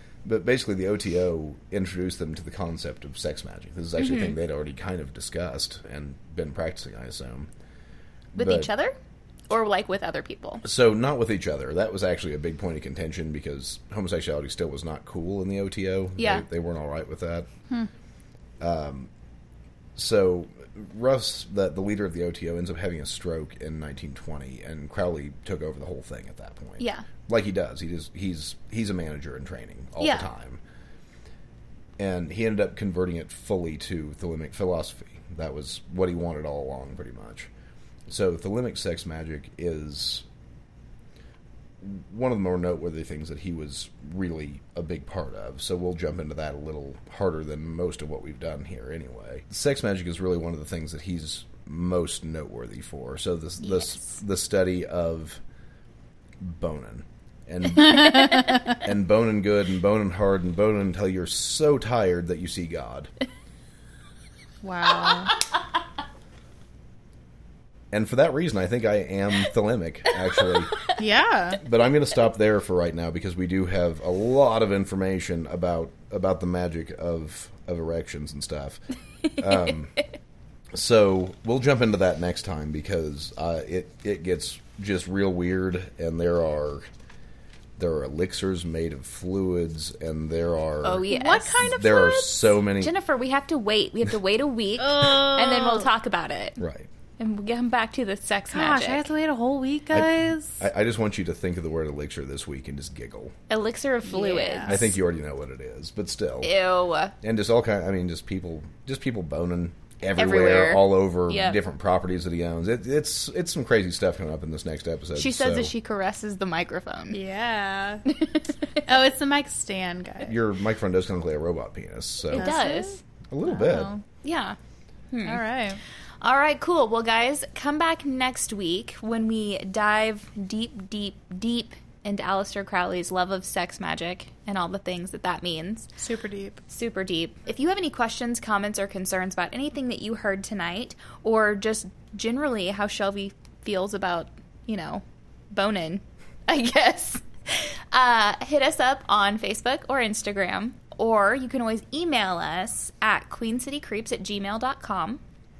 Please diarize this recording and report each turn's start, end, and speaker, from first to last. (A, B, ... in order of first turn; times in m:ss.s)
0:00.2-0:07.5 A
0:04.0-0:04.3 B
0:08.3-0:08.7 A
0:08.4-0:09.0 B
0:09.5-0:10.6 B
0:10.6-0:17.5 A
0:16.2-0:16.4 B
0:18.6-0:19.1 A
0:20.0-0:30.6 A
0:26.8-0:27.0 B
0:30.0-0:30.3 B
0:32.0-0:37.5 A
0:38.1-0:40.2 A
0:41.8-0:55.4 A
0:53.6-0:54.2 B
0:56.4-1:03.1 A
0:58.2-0:58.6 C
1:04.6-1:05.3 C
1:07.9-1:10.8 A
1:10.9-1:11.6 C
1:11.6-1:18.8 A
1:19.4-1:20.0 A
1:20.7-1:26.9 A
1:27.8-1:32.9 A
1:30.8-1:31.6 B
1:31.1-1:32.5 C
1:32.8-1:36.6 B
1:34.8-1:35.9 C
1:36.6-1:36.9 A
1:37.2-1:39.1 B
1:38.5-1:40.6 C
1:39.9-1:43.3 A
1:43.5-1:44.9 B
1:44.0-1:44.8 C
1:44.6-1:46.5 A
1:46.4-1:47.1 B
1:47.2-1:55.7 A
1:50.1-1:51.6 B
1:55.2-1:57.2 B
1:57.1-1:58.0 C
1:58.1-1:58.4 B
1:58.8-2:00.3 C
2:00.2-2:02.5 A
2:02.3-2:03.0 B
2:02.3-2:04.0 C
2:03.3-2:03.9 A
2:04.2-2:04.6 B
2:05.1-2:05.4 B
2:05.2-2:05.8 C
2:06.2-2:15.9 B
2:16.0-2:16.6 C
2:16.7-2:35.2 B